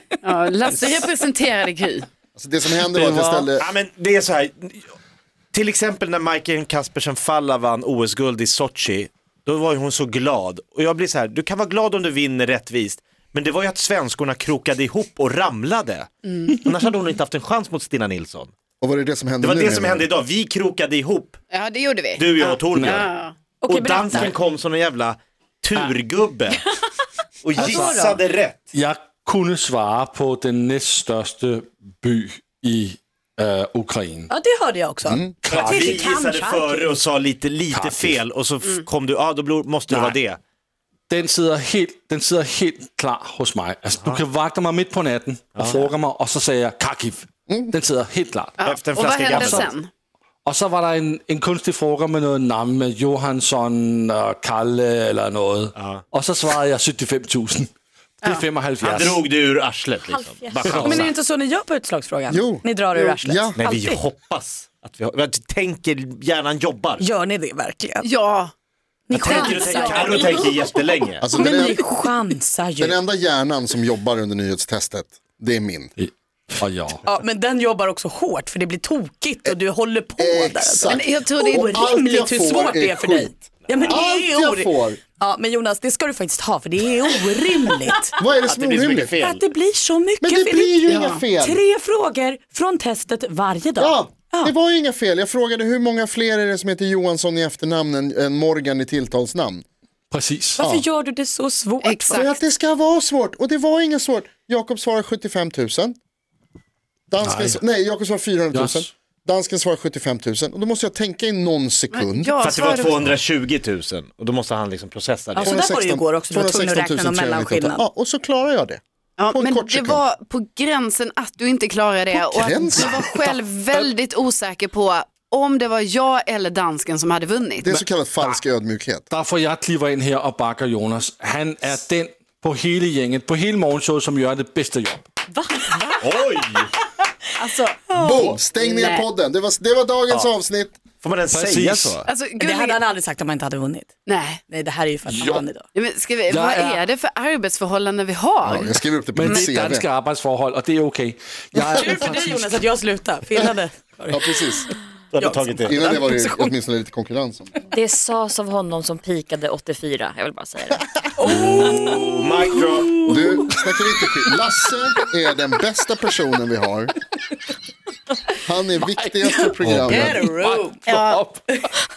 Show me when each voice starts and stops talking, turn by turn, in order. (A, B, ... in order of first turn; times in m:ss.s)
0:00.2-0:02.1 A
0:02.3-0:03.7 B
0:03.0-0:04.9 C
0:05.5-0:18.5 C
0:16.3-0:16.6 A
0:18.8-0:20.1 B
0:19.4-0:21.4 C
0:21.5-0:23.3 A
0:22.2-0:23.1 C
0:22.7-0:23.0 D
0:23.6-0:24.3 E
0:23.6-0:26.6 C
0:27.4-0:28.7 C
0:27.6-0:28.0 D
0:27.6-0:28.2 E
0:28.7-0:34.3 D
0:34.3-0:36.9 E
0:35.0-0:35.3 B
0:35.4-0:36.1 D
0:35.5-0:40.4 C
0:37.7-0:38.2 D
0:39.9-0:40.2 D
0:41.1-0:48.6 D
0:44.0-0:44.2 C
0:45.5-0:45.9 C
0:47.5-0:47.7 B
0:48.6-0:49.9 A
0:48.6-0:49.7 C
0:50.4-0:57.7 D
0:55.8-0:56.0 C
0:58.2-0:59.2 D
0:58.8-1:01.1 C
1:00.0-1:01.0 F
1:00.7-1:01.0 D
1:00.8-1:04.0 E
1:02.3-1:03.6 B
1:03.6-1:07.0 C
1:07.0-1:08.1 E
1:08.0-1:08.5 A
1:09.1-1:10.4 E
1:09.1-1:11.2 C
1:09.2-1:10.2 A
1:09.8-1:10.2 F
1:11.2-1:11.8 B
1:11.3-1:13.0 E
1:12.8-1:15.9 B
1:16.0-1:17.0 D
1:17.0-1:28.1 E
1:20.2-1:25.0 B
1:20.9-1:21.8 A
1:28.2-1:29.2 B
1:28.4-1:29.4 C
1:29.2-1:34.5 E
1:30.2-1:31.6 B
1:30.9-1:31.2 A
1:33.8-1:39.6 B
1:40.1-1:40.6 D
1:40.6-1:42.3 E
1:40.6-1:40.8 B
1:41.8-1:42.4 A
1:42.1-1:46.0 B
1:47.1-1:52.3 B
1:47.2-1:47.6 D
1:48.5-1:48.9 D
1:51.9-1:53.0 A
1:52.4-1:55.6 C
1:55.3-1:57.8 E
1:55.4-2:00.0 B
1:59.2-2:07.8 A
2:02.1-2:03.0 B
2:03.0-2:03.9 D
2:07.6-2:09.1 B
2:09.1-2:15.0 D
2:15.3-2:16.2 F
2:16.0-2:16.7 C
2:17.4-2:17.9 A
2:17.4-2:18.2 F
2:18.0-2:20.8 B
2:18.6-2:19.1 A
2:21.0-2:22.0 C
2:21.3-2:22.0 D
2:22.0-2:22.8 A
2:22.4-2:23.9 E
2:24.1-2:24.4 A
2:24.5-2:25.7 E
2:25.1-2:25.4 D
2:25.7-2:28.8 A
2:26.3-2:26.8 D
2:28.4-2:29.9 B
2:29.1-2:32.6 D
2:31.8-2:36.5 E
2:34.1-2:34.7 B
2:35.1-2:35.8 C
2:35.6-2:37.5 B
2:37.7-2:40.9 F
2:41.2-2:43.6 E
2:41.2-2:42.9 C
2:43.0-2:46.9 B
2:48.4-2:50.2 B
2:49.6-2:51.4 D
2:49.9-2:50.8 E
2:50.9-2:51.2 A